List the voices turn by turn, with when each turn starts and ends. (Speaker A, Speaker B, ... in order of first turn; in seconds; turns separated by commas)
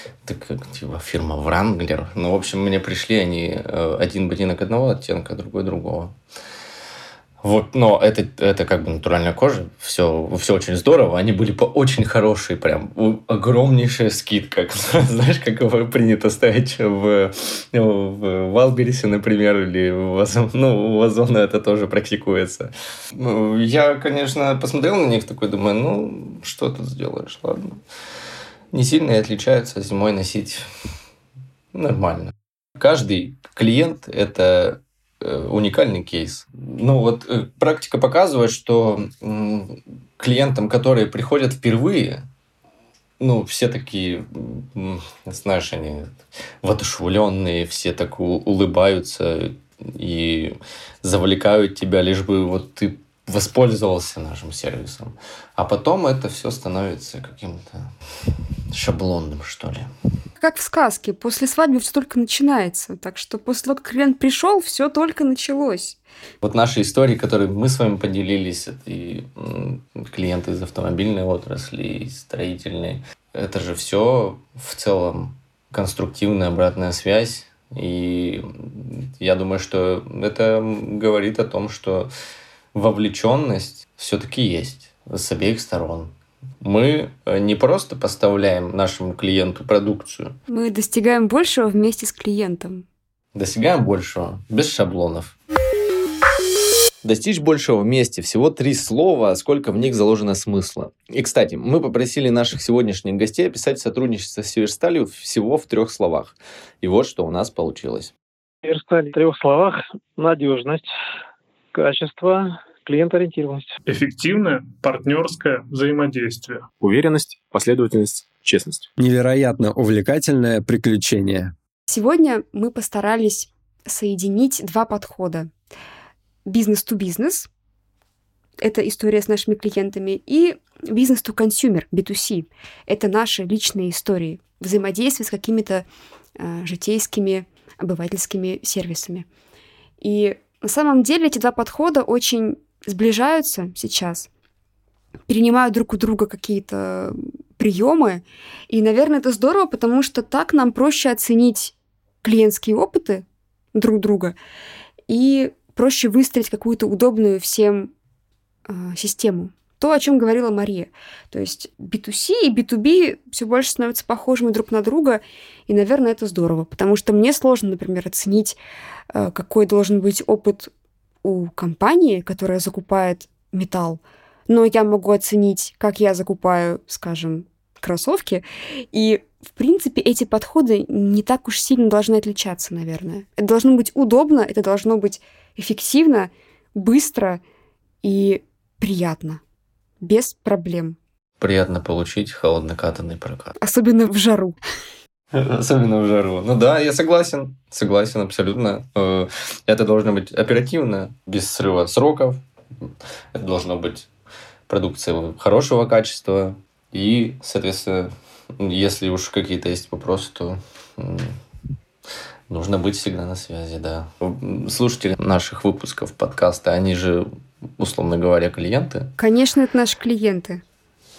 Speaker A: 0.2-6.2, Speaker A: 7.4-27.8, Speaker A: 28.7-30.6, Speaker A: 31.7-42.2, Speaker A: 43.2-57.9, Speaker A: 58.7-59.9, Speaker B: 60.4-66.0, Speaker A: 66.4-82.1, Speaker A: 82.7-90.3, Speaker B: 90.5-92.8, Speaker A: 93.3-95.3, Speaker A: 97.0-108.1, Speaker C: 108.6-110.9, Speaker C: 111.7-113.8, Speaker D: 113.9-116.7, Speaker E: 116.8-118.9, Speaker F: 119.0-121.5, Speaker B: 121.9-125.5, Speaker B: 126.5-127.5, Speaker B: 128.6-135.9, Speaker B: 136.4-139.3, Speaker B: 140.0-144.3, Speaker B: 145.3-154.3, Speaker B: 155.1-157.9, Speaker B: 158.7-168.6, Speaker B: 169.1-170.7, Speaker B: 171.2-187.4, Speaker B: 188.0-189.4, Speaker B: 190.0-191.0, Speaker A: 191.4-193.6, Speaker B: 193.6-194.6, Speaker A: 195.3-202.4, Speaker A: 203.3-204.1, Speaker A: 204.7-211.3, Speaker A: 212.5-217.3, Speaker A: 217.8-219.1, Speaker B: 219.2-220.6